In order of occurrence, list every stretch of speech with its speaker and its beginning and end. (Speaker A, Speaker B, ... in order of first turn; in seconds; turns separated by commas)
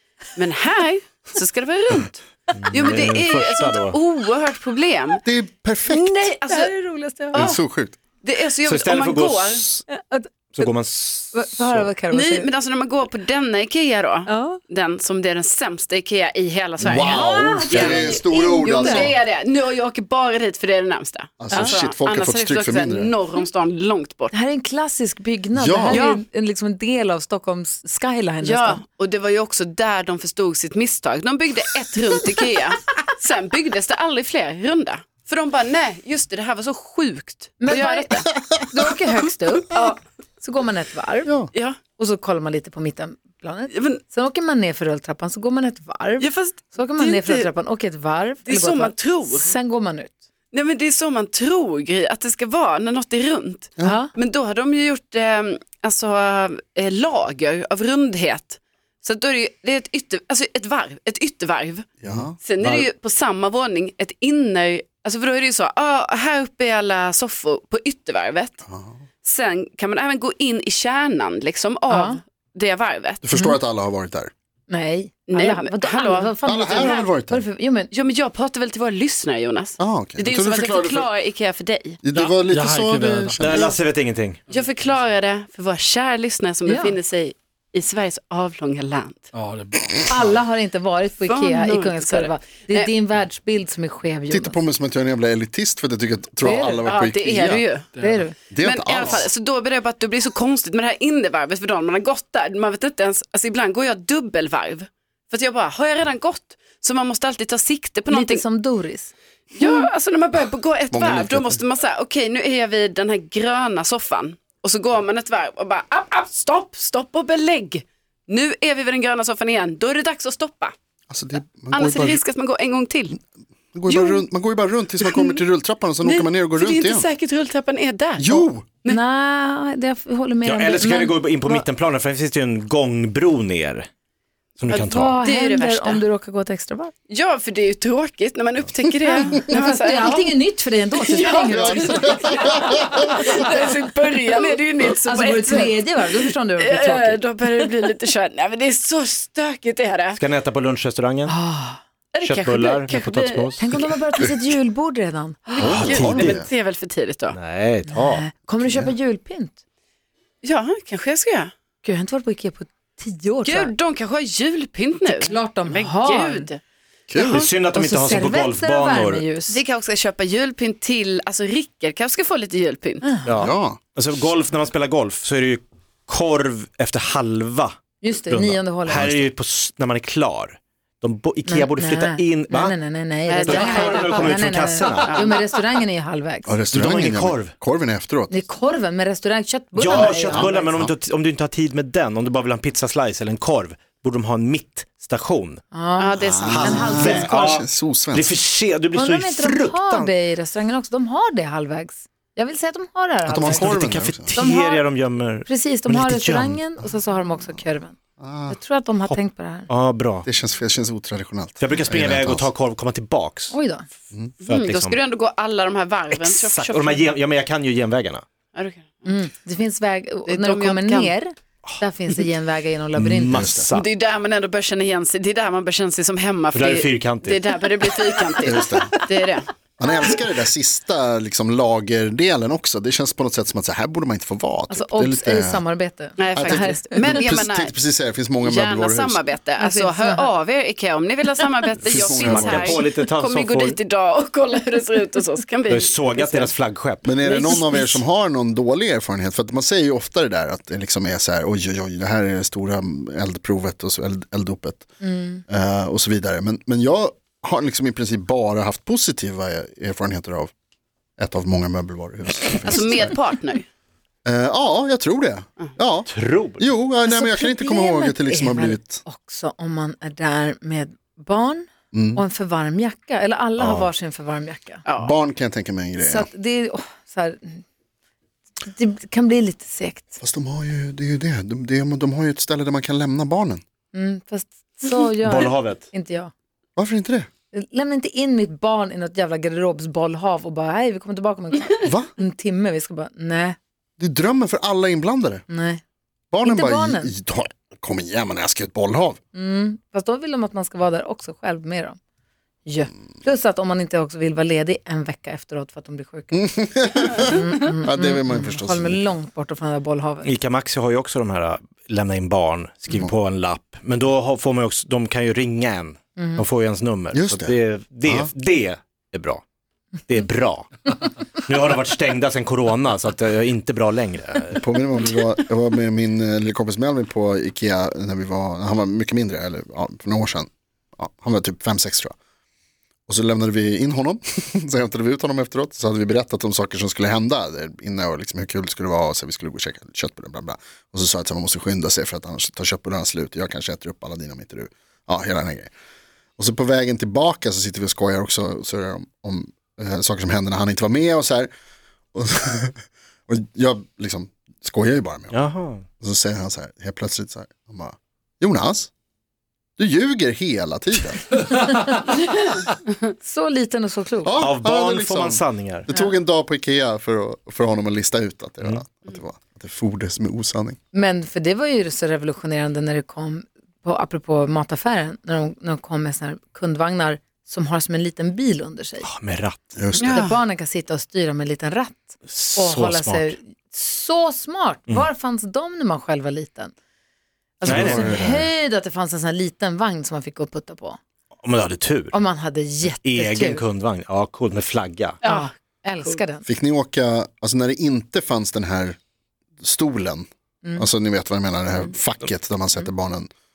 Speaker A: 0.4-5.2, Speaker B: 2.6-4.0, Speaker C: 5.2-6.2, Speaker A: 5.9-6.7, Speaker D: 6.5-7.5, Speaker A: 7.3-7.6, Speaker C: 7.3-8.0, Speaker A: 8.2-9.7, Speaker B: 8.7-9.8, Speaker D: 9.9-10.7, Speaker B: 10.5-11.9, Speaker D: 11.3-12.5, Speaker A: 12.1-24.3, Speaker D: 14.3-14.6, Speaker C: 16.8-19.1, Speaker D: 16.8-19.1, Speaker C: 21.4-23.1, Speaker D: 21.5-21.8, Speaker D: 24.3-28.8, Speaker C: 25.6-26.1, Speaker A: 25.9-26.2, Speaker A: 28.4-38.3, Speaker D: 37.6-41.4, Speaker A: 39.7-40.0, Speaker D: 42.0-50.2, Speaker A: 43.7-44.0, Speaker A: 46.2-47.5, Speaker A: 48.5-49.5, Speaker A: 50.5-61.9, Speaker D: 53.8-54.1, Speaker C: 62.0-62.4, Speaker B: 62.1-62.9, Speaker A: 62.4-68.6, Speaker C: 68.7-69.0, Speaker A: 69.2-73.2, Speaker D: 71.9-72.2, Speaker C: 73.2-74.3, Speaker D: 73.3-73.6, Speaker D: 74.7-77.9, Speaker A: 75.3-77.0, Speaker C: 76.5-77.5, Speaker A: 77.9-82.0, Speaker C: 79.8-81.1, Speaker C: 82.0-83.8, Speaker E: 82.1-83.5, Speaker B: 83.4-84.4, Speaker A: 84.5-89.3, Speaker D: 86.7-87.0, Speaker E: 89.3-90.4, Speaker D: 90.1-94.6, Speaker A: 91.3-92.9, Speaker C: 94.3-97.7, Speaker D: 96.4-96.8, Speaker A: 96.6-97.9, Speaker E: 98.0-98.2, Speaker D: 98.0-98.4, Speaker C: 98.5-99.3, Speaker A: 98.6-108.4, Speaker D: 108.1-109.9, Speaker A: 109.5-120.8, Speaker C: 110.9-111.6, Speaker C: 121.1-122.2, Speaker A: 121.7-123.2, Speaker C: 123.7-127.1, Speaker A: 123.9-124.2, Speaker A: 125.0-125.4, Speaker A: 126.0-129.0, Speaker C: 128.2-128.7, Speaker D: 128.9-131.7, Speaker B: 130.4-133.9, Speaker B: 134.6-135.2, Speaker D: 134.7-136.9, Speaker A: 135.1-136.0, Speaker A: 137.1-140.3, Speaker D: 139.1-142.5, Speaker A: 141.0-150.2, Speaker C: 141.5-143.2, Speaker D: 145.1-147.2, Speaker B: 150.1-151.3, Speaker D: 151.3-151.8, Speaker A: 152.1-153.5, Speaker B: 152.2-153.8, Speaker D: 153.6-156.1, Speaker A: 155.5-157.4, Speaker C: 155.6-156.5, Speaker B: 155.7-156.4, Speaker B: 157.3-158.2, Speaker D: 157.9-159.6, Speaker C: 158.6-158.9, Speaker A: 160.4-161.5, Speaker D: 161.8-163.7, Speaker A: 163.4-166.6, Speaker D: 165.0-166.5, Speaker C: 167.1-167.5, Speaker A: 167.1-167.5, Speaker B: 167.2-169.2, Speaker D: 167.7-169.6, Speaker A: 169.5-173.1, Speaker D: 173.0-173.4, Speaker B: 173.2-177.8, Speaker C: 173.4-173.8, Speaker D: 178.0-179.3, Speaker B: 178.3-182.8, Speaker D: 181.4-186.6, Speaker A: 183.3-185.4, Speaker B: 183.5-185.3, Speaker C: 186.5-188.3, Speaker B: 186.7-187.5, Speaker D: 188.3-190.8, Speaker B: 189.8-195.6, Speaker C: 189.9-190.5, Speaker D: 195.7-197.4, Speaker A: 196.0-196.9, Speaker C: 196.2-198.3, Speaker B: 196.5-200.1, Speaker D: 198.9-203.8, Speaker C: 203.3-204.3, Speaker B: 203.4-206.6, Speaker D: 204.3-204.8, Speaker D: 205.5-208.0, Speaker C: 208.2-208.6, Speaker D: 208.5-209.7, Speaker B: 209.7-210.3, Speaker C: 210.2-212.5, Speaker B: 211.6-213.5, Speaker D: 213.5-213.9, Speaker B: 214.4-215.0, Speaker A: 214.4-217.1, Speaker B: 216.1-218.2, Speaker A: 218.5-219.1, Speaker D: 219.1-223.6, Speaker A: 220.2-221.1, Speaker B: 222.9-223.9, Speaker C: 223.3-223.7, Speaker A: 223.7-229.5, Speaker B: 226.5-227.5, Speaker C: 228.4-229.1, Speaker C: 229.8-235.6, Speaker D: 234.7-237.3, Speaker A: 236.2-237.8, Speaker C: 236.3-239.2, Speaker A: 238.4-246.5, Speaker D: 239.6-240.3, Speaker C: 241.8-242.8, Speaker B: 241.9-243.8, Speaker B: 245.7-247.1, Speaker C: 247.1-254.9, Speaker D: 247.2-247.9, Speaker D: 255.0-255.4, Speaker C: 255.5-260.5, Speaker C: 261.2-263.2, Speaker A: 262.6-263.6, Speaker C: 264.2-269.0, Speaker B: 266.1-266.7, Speaker D: 267.1-274.8, Speaker C: 271.9-272.2, Speaker C: 273.6-273.9, Speaker A: 274.9-275.1, Speaker C: 275.0-276.3, Speaker D: 276.0-277.6, Speaker D: 278.6-280.2, Speaker C: 280.2-283.6, Speaker D: 283.9-286.3, Speaker B: 285.2-285.8, Speaker C: 286.8-287.3, Speaker D: 287.5-293.6, Speaker C: 291.9-292.1, Speaker C: 294.0-295.4, Speaker D: 295.5-295.8, Speaker C: 296.3-299.2, Speaker D: 296.4-297.1, Speaker D: 299.3-302.0, Speaker D: 302.6-310.3, Speaker C: 306.3-309.1, Speaker B: 310.2-319.4, Speaker D: 316.2-316.4, Speaker C: 317.1-318.3, Speaker B: 320.1-324.6, Speaker C: 324.5-332.1, Speaker C: 333.1-345.7, Speaker C: 346.4-351.5, Speaker C: 352.1-352.8, Speaker C: 353.3-355.4, Speaker B: 355.3-355.8, Speaker C: 356.0-358.9, Speaker C: 359.8-361.4, Speaker D: 361.6-362.2, Speaker D: 363.2-364.3, Speaker C: 364.2-370.8, Speaker B: 364.4-365.9, Speaker D: 370.9-379.1, Speaker B: 379.0-379.7, Speaker C: 379.8-380.2, Speaker A: 380.0-380.4, Speaker D: 380.0-386.7, Speaker B: 382.3-383.3, Speaker D: 387.6-391.0, Speaker C: 387.6-388.5, Speaker B: 387.6-388.3, Speaker B: 391.4-392.2, Speaker D: 392.1-393.6, Speaker B: 392.8-395.2, Speaker A: 395.2-395.5, Speaker D: 395.2-396.4, Speaker C: 396.4-399.0, Speaker C: 399.6-403.3